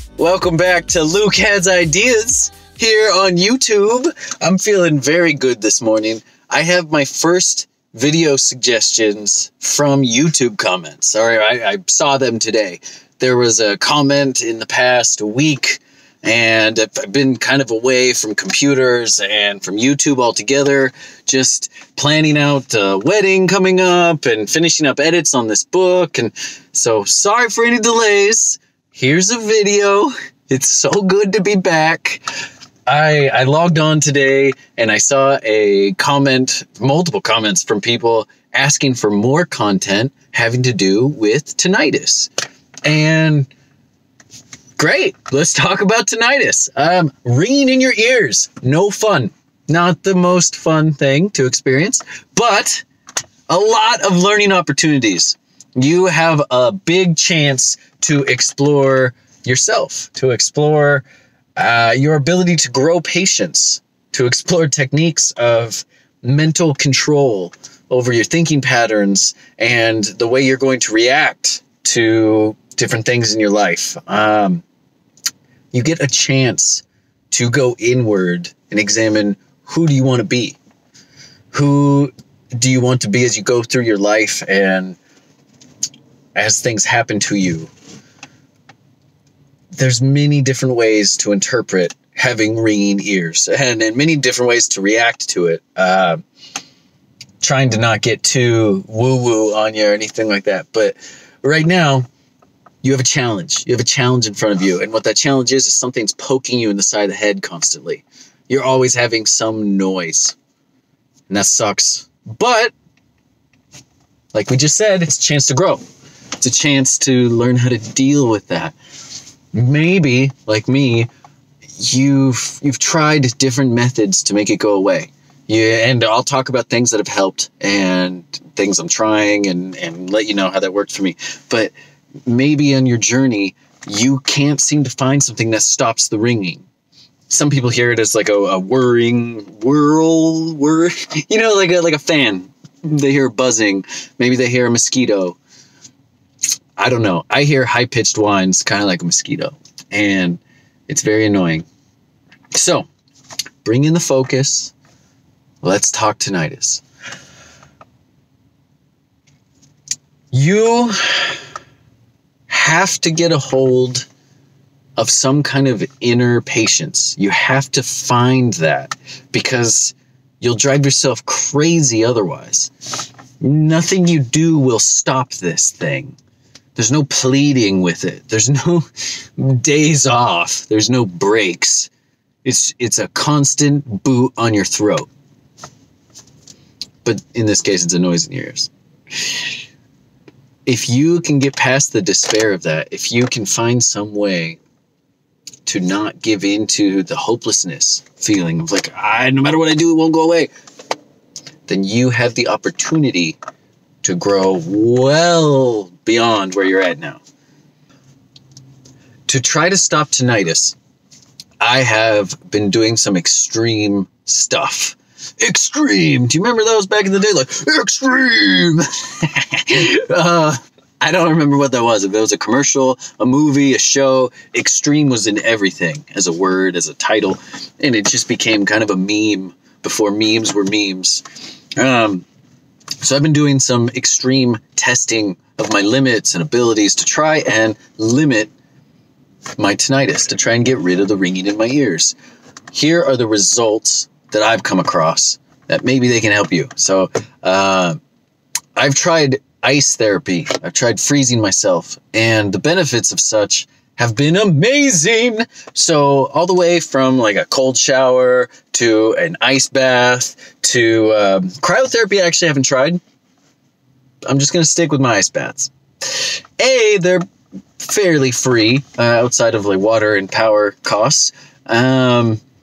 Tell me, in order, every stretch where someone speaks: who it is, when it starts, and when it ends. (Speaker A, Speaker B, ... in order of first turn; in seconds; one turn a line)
Speaker A: 0.2-32.2
Speaker A: 32.9-42.3
Speaker A: 42.8-43.5
Speaker A: 44.8-52.9
Speaker A: 53.5-61.0
Speaker A: 61.5-74.6
Speaker A: 75.7-80.6
Speaker A: 81.5-85.0
Speaker A: 86.3-87.7
Speaker A: 89.7-96.2
Speaker A: 97.4-102.1
Speaker A: 102.8-110.3
Speaker A: 111.3-112.7
Speaker A: 114.3-115.8
Speaker A: 116.4-118.8
Speaker A: 119.5-121.1
Speaker A: 121.8-131.7
Speaker A: 132.2-136.7
Speaker A: 137.3-145.4
Speaker A: 146.8-151.7
Speaker A: 152.5-152.9
Speaker A: 153.6-154.7
Speaker A: 155.6-156.8
Speaker A: 160.3-161.4
Speaker A: 162.5-164.1
Speaker A: 165.0-172.7
Speaker A: 173.4-176.2
Speaker A: 176.8-181.9
Speaker A: 182.4-185.1
Speaker A: 187.0-189.5
Speaker A: 190.7-194.6
Speaker A: 195.6-200.5
Speaker A: 201.7-203.4
Speaker A: 204.0-207.2
Speaker A: 209.3-210.8
Speaker A: 211.6-231.2
Speaker A: 231.8-232.2
Speaker A: 233.0-238.5
Speaker A: 239.6-242.2
Speaker A: 242.7-248.0
Speaker A: 248.8-263.0
Speaker A: 264.3-267.2
Speaker A: 267.8-272.4